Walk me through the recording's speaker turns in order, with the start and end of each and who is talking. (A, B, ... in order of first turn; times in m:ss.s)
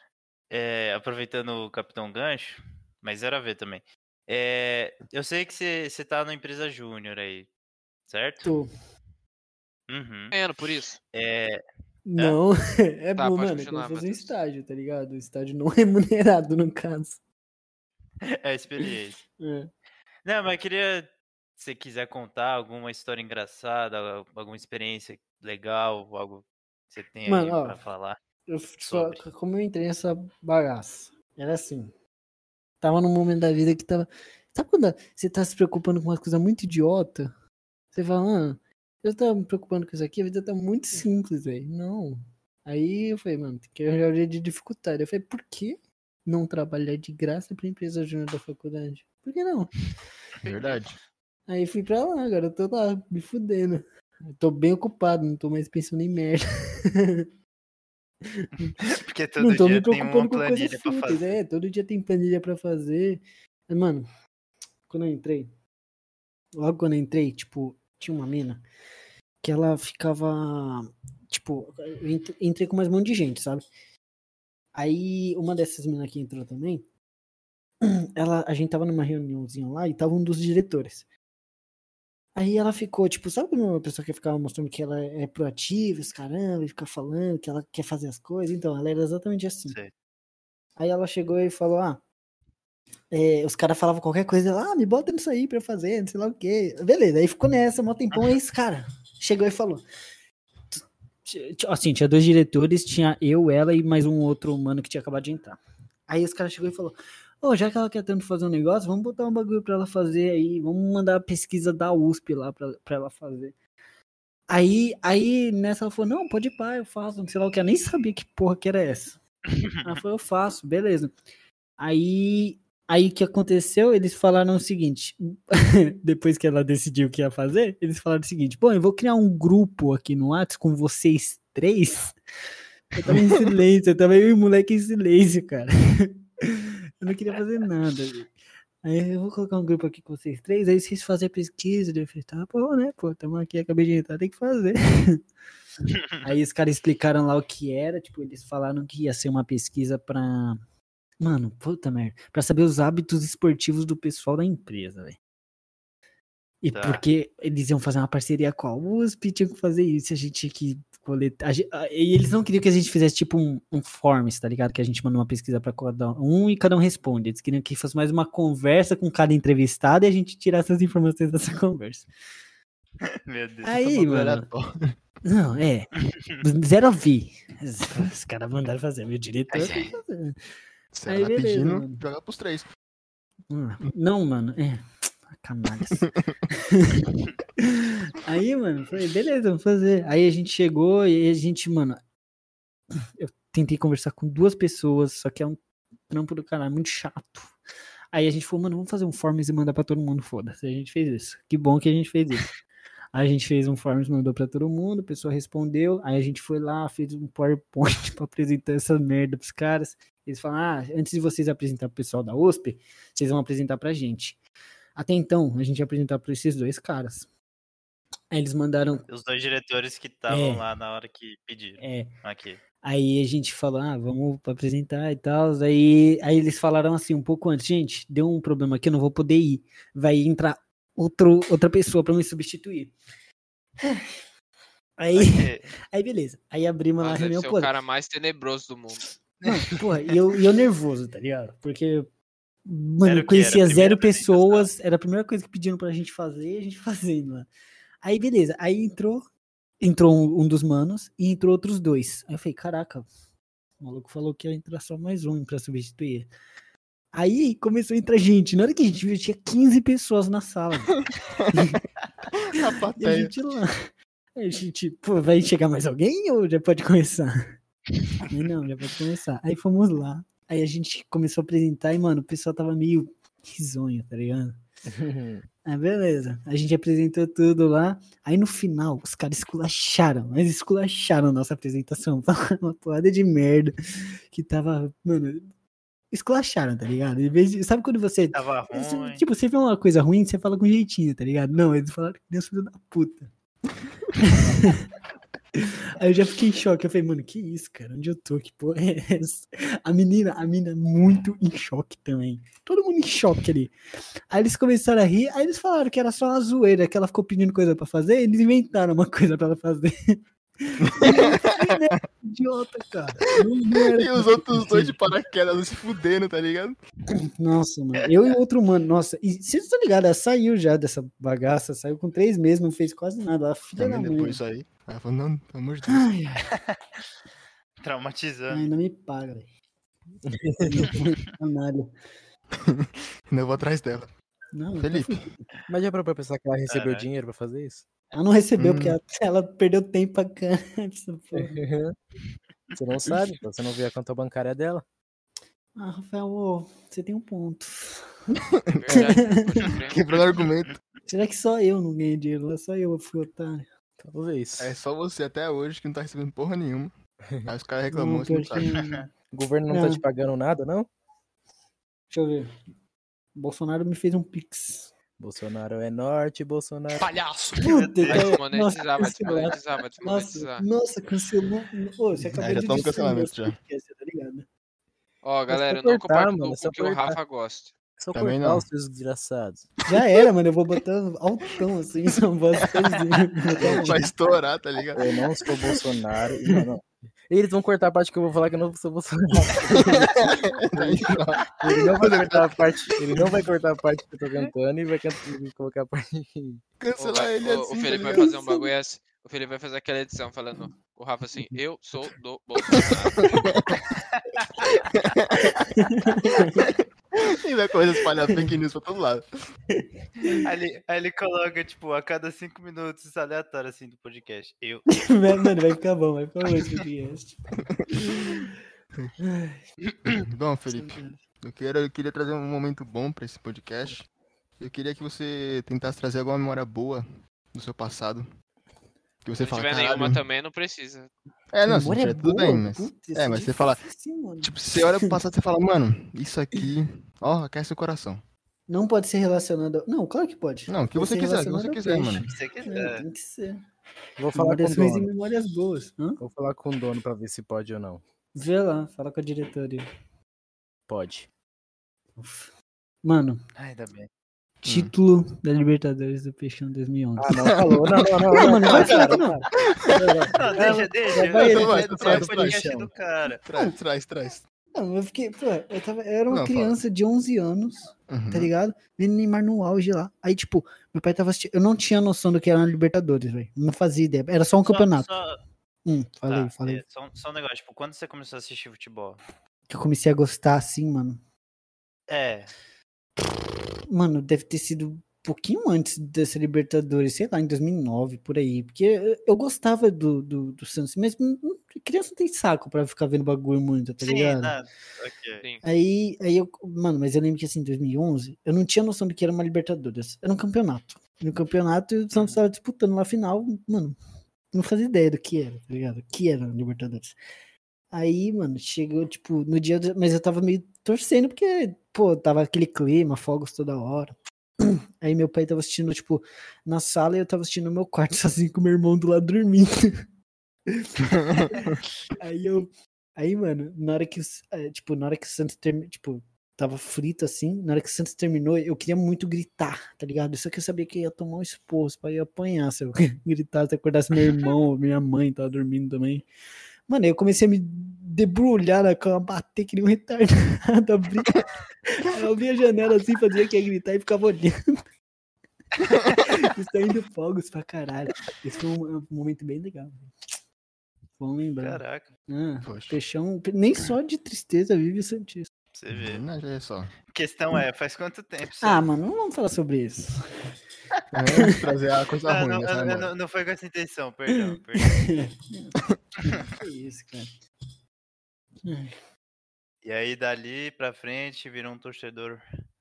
0:00.5-0:07.5 A
0:08.1-0:08.5 A
0:08.4-0:08.7 B
0:09.9-0:10.3 A
0:10.3-0:11.0 C
0:11.1-0:11.6 A
0:12.0-0:17.2 B
0:13.2-0:14.3 C
0:18.4-0:19.2 A
0:19.4-0:19.7 B
0:20.2-0:28.2 A
0:27.3-0:27.8 B
0:28.5-0:31.9 B
0:28.8-0:29.2 A
0:32.8-0:37.3 B
0:37.9-0:49.8 B
0:50.4-0:50.8 C
0:50.4-0:51.0 D
0:51.5-0:57.3 B
0:58.3-0:58.8 B
0:58.8-1:01.4 A
0:59.4-1:04.0 B
1:04.9-1:05.5 B
1:06.5-1:08.6 B
1:09.4-1:13.6 B
1:14.7-1:16.8 B
1:17.8-1:21.1 B
1:22.3-1:29.8 B
1:30.8-1:32.0 B
1:33.1-1:39.8 B
1:40.7-1:53.6 B
1:54.5-1:59.2 B
1:59.8-2:01.1 B
2:01.8-2:12.1 B
2:12.9-2:25.2 B
2:26.2-2:30.6 B
2:31.2-2:35.2 B
2:36.6-2:52.1 B
2:36.7-2:37.0 A
2:53.1-2:53.7 A
2:53.6-2:54.5 B
2:53.8-2:55.0 D
2:55.2-3:00.4 B
2:59.5-3:00.0 A
3:00.9-3:02.7 D
3:01.1-3:02.0 B
3:03.5-3:12.0 B
3:06.0-3:06.3 D
3:13.2-3:17.6 B
3:18.1-3:22.5 B
3:23.1-3:34.4 B
3:35.0-3:37.3 B
3:38.3-3:39.0 B
3:39.1-3:42.6 A
3:40.3-3:40.6 B
3:41.8-3:42.1 B
3:42.8-3:52.9 B
3:53.8-3:54.2 B
3:55.0-3:57.7 B
3:55.1-3:55.7 A
3:57.0-3:59.1 C
3:59.4-4:02.1 B
4:02.6-4:07.5 B
4:03.0-4:04.7 A
4:08.0-4:09.2 B
4:09.8-4:13.0 B
4:13.8-4:16.3 B
4:17.1-4:21.0 B
4:21.5-4:21.8 B
4:22.3-4:23.3 D
4:23.0-4:23.7 B
4:24.4-4:27.4 B
4:28.3-4:34.6 B
4:34.9-4:35.4 E
4:35.6-4:43.7 B
4:44.3-4:45.5 B
4:46.1-4:53.3 B
4:48.3-4:49.2 A
4:54.3-4:54.8 B
4:55.6-5:03.7 B
5:04.3-5:15.1 B
5:11.0-5:12.0 D
5:13.8-5:16.8 D
5:17.4-5:24.4 B
5:23.8-5:26.1 D
5:25.9-5:26.5 B
5:26.5-5:26.8 A
5:27.8-5:28.7 A
5:28.5-5:29.5 B
5:30.2-5:30.9 E
5:30.6-5:31.9 B
5:32.7-5:34.1 D
5:34.5-5:35.3 B
5:34.8-5:35.2 D
5:35.7-5:37.8 E
5:36.7-5:37.1 A
5:38.1-5:41.6 B
5:38.6-5:39.0 D
5:41.3-5:42.0 E
5:42.8-5:44.8 E
5:45.8-5:48.1 B
5:48.7-5:49.1 D
5:48.7-5:50.0 C
5:49.0-5:49.8 B
5:49.9-5:50.8 D
5:51.0-5:53.7 B
5:54.0-5:54.7 E
5:54.6-5:56.9 D
5:57.4-5:58.6 D
5:57.9-5:59.1 B
5:59.3-6:00.9 E
5:59.7-6:00.0 B
6:02.1-6:02.5 B
6:03.3-6:04.9 B
6:05.2-6:07.2 E
6:07.6-6:14.5 B
6:07.6-6:08.3 A
6:08.1-6:10.6 C
6:12.4-6:13.6 D
6:15.2-6:17.7 C
6:15.5-6:17.2 E
6:18.0-6:19.7 E
6:18.1-6:18.6 D
6:19.9-6:24.1 B
6:23.6-6:25.0 D
6:23.6-6:23.9 E
6:24.9-6:30.1 E
6:29.8-6:31.5 D
6:30.8-6:31.0 E
6:31.6-6:36.6 E
6:32.0-6:32.6 D
6:36.8-6:38.6 D
6:37.0-6:43.2 C
6:38.1-6:38.5 B
6:43.3-6:43.8 D
6:44.2-6:44.4 A
6:44.9-6:45.5 D
6:45.7-6:46.7 B
6:47.4-6:49.2 D
6:49.7-6:50.4 B
6:50.4-6:54.9 A
6:54.9-6:57.4 B
6:57.9-6:58.5 B
6:59.2-6:59.6 B
7:00.0-7:04.0 D
7:00.7-7:01.2 B
7:04.6-7:08.3 D
7:09.2-7:10.2 D
7:09.4-7:11.1 C
7:11.5-7:13.8 D
7:11.6-7:14.6 B
7:14.4-7:18.2 D
7:18.7-7:23.6 B
7:20.7-7:22.3 D
7:22.3-7:23.0 A
7:24.2-7:25.1 E
7:24.3-7:26.2 B
7:26.2-7:28.0 E
7:28.3-7:29.8 B
7:30.9-7:31.3 E
7:32.2-7:33.4 B
7:33.6-7:34.1 A
7:34.6-7:34.9 D
7:34.6-7:37.5 B
7:37.2-7:42.9 E
7:38.3-7:41.8 B
7:38.6-7:39.2 D
7:40.4-7:43.4 A
7:41.3-7:42.6 D
7:43.4-7:44.4 D
7:44.7-7:55.1 B
7:46.3-7:46.8 D
7:48.1-7:48.5 D
7:54.7-7:55.3 A
7:55.8-7:56.8 B
7:56.3-7:59.2 A
7:59.7-8:01.2 B
8:02.1-8:02.5 A
8:03.9-8:14.6 B
8:14.0-8:15.4 A
8:15.6-8:24.0 B
8:24.5-8:27.2 B
8:27.9-8:34.1 B
8:34.6-8:39.9 B
8:40.7-8:41.6 B
8:41.4-8:41.8 D
8:42.2-8:56.2 B
8:56.9-9:04.6 B
9:06.2-9:10.1 B
9:11.2-9:15.5 B
9:11.6-9:12.1 A
9:12.6-9:13.0 D
9:15.7-9:16.2 A
9:15.9-9:16.9 D
9:17.1-9:18.8 A
9:18.6-9:20.1 B
9:21.1-9:23.1 D
9:22.3-9:25.0 A
9:24.8-9:27.3 B
9:28.6-9:28.9 B
9:29.8-9:32.4 A